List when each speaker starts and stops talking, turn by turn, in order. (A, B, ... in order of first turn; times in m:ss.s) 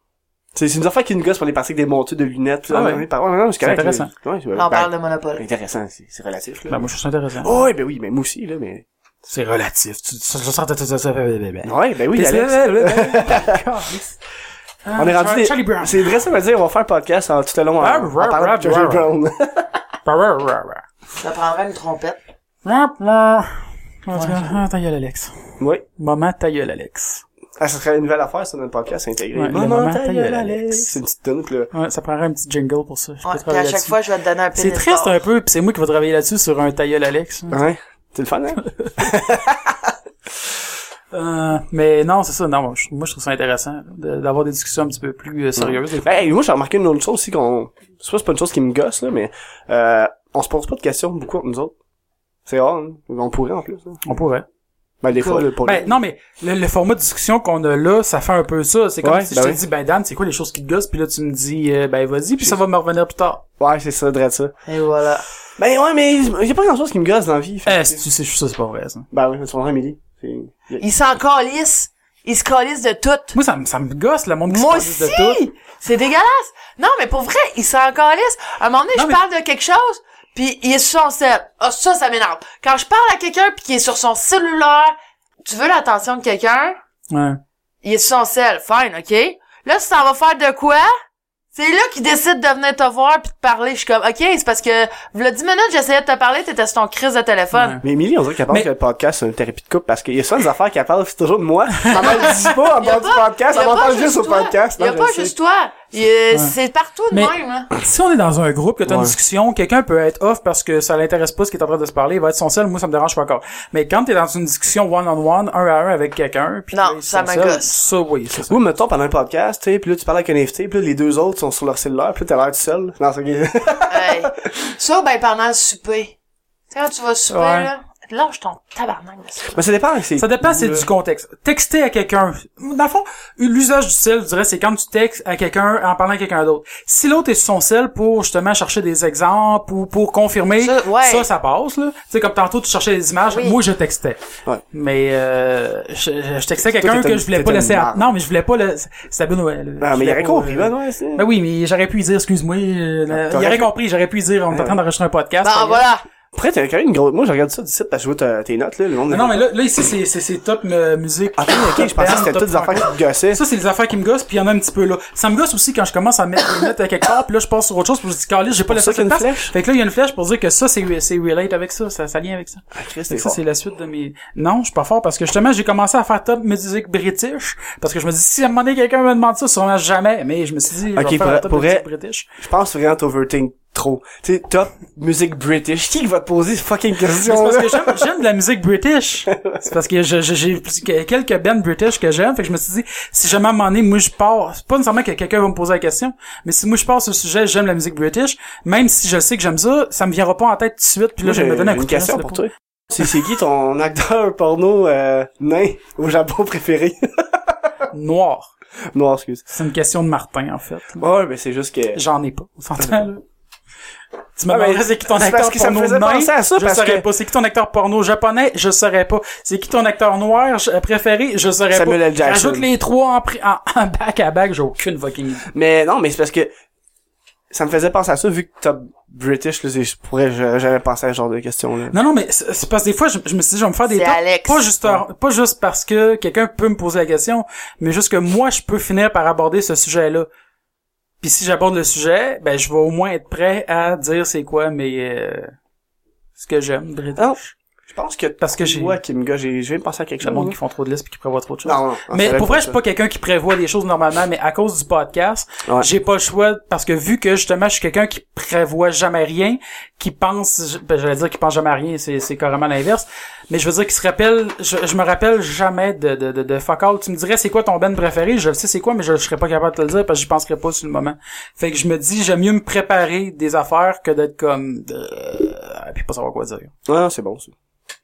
0:00.5-0:06.9 A
0:02.7-0:03.0 B
0:03.6-0:04.1 B
0:04.5-0:05.4 C
0:06.7-0:07.6 B
0:07.4-0:08.8 A
0:09.2-0:14.2 B
0:11.6-0:13.6 A
0:14.8-0:16.1 B
0:15.0-0:19.7 A
0:17.8-0:19.1 B
0:20.0-0:20.8 B
0:21.2-0:22.2 C
0:22.6-0:27.2 B
0:27.6-0:31.7 A
0:29.3-0:31.0 B
0:31.7-0:34.0 B
0:33.2-0:35.2 C
0:34.5-0:37.6 B
0:37.5-0:39.9 A
0:41.1-0:46.3 B
0:45.6-0:51.7 A
0:52.4-0:54.0 A
0:54.0-0:54.4 B
0:55.0-0:55.9 A
0:55.2-1:03.4 B
0:59.0-0:59.6 A
1:03.6-1:04.5 A
1:04.7-1:05.2 C
1:05.6-1:08.0 A
1:07.6-1:09.1 B
1:09.1-1:10.8 A
1:10.8-1:13.3 C
1:13.3-1:15.4 B
1:14.5-1:26.8 C
1:27.1-1:27.4 B
1:27.8-1:30.9 C
1:31.5-1:37.8 C
1:37.5-1:37.8 B
1:37.8-1:45.3 A
1:41.8-1:42.5 B
1:41.9-1:47.7 C
1:47.1-1:58.6 B
1:48.8-1:49.1 A
1:56.7-1:57.8 C
1:58.3-2:04.5 A
2:03.9-2:06.1 C
2:06.7-2:09.6 C
2:07.3-2:07.7 B
2:09.5-2:10.9 A
2:10.2-2:35.9 B
2:20.6-2:21.3 C
2:23.3-2:23.6 C
2:26.6-2:28.1 A
2:29.8-2:31.2 A
2:33.1-2:33.7 A
2:34.5-2:34.8 A
2:35.4-2:36.0 C
2:36.3-2:39.4 A
2:39.1-3:02.2 B
2:41.4-2:43.4 A
2:48.7-2:49.5 A
2:52.7-2:53.4 A
3:00.9-3:01.8 A
3:02.4-3:08.1 A
3:07.2-3:22.5 B
3:09.3-3:09.6 A
3:21.2-3:27.8 A
3:27.9-3:28.5 B
3:28.9-3:29.5 A
3:29.5-3:31.0 B
3:31.0-3:32.0 A
3:31.9-3:33.2 B
3:34.4-3:45.5 B
3:34.5-3:37.1 A
3:41.7-3:42.7 A
3:45.5-3:46.5 A
3:47.5-3:51.9 A
3:51.9-4:00.3 B
3:53.9-3:54.6 C
4:01.2-4:05.6 B
4:06.4-4:07.5 B
4:07.2-4:10.6 A
4:08.4-4:09.0 B
4:10.2-4:36.7 B
4:11.6-4:12.8 A
4:36.8-4:37.5 A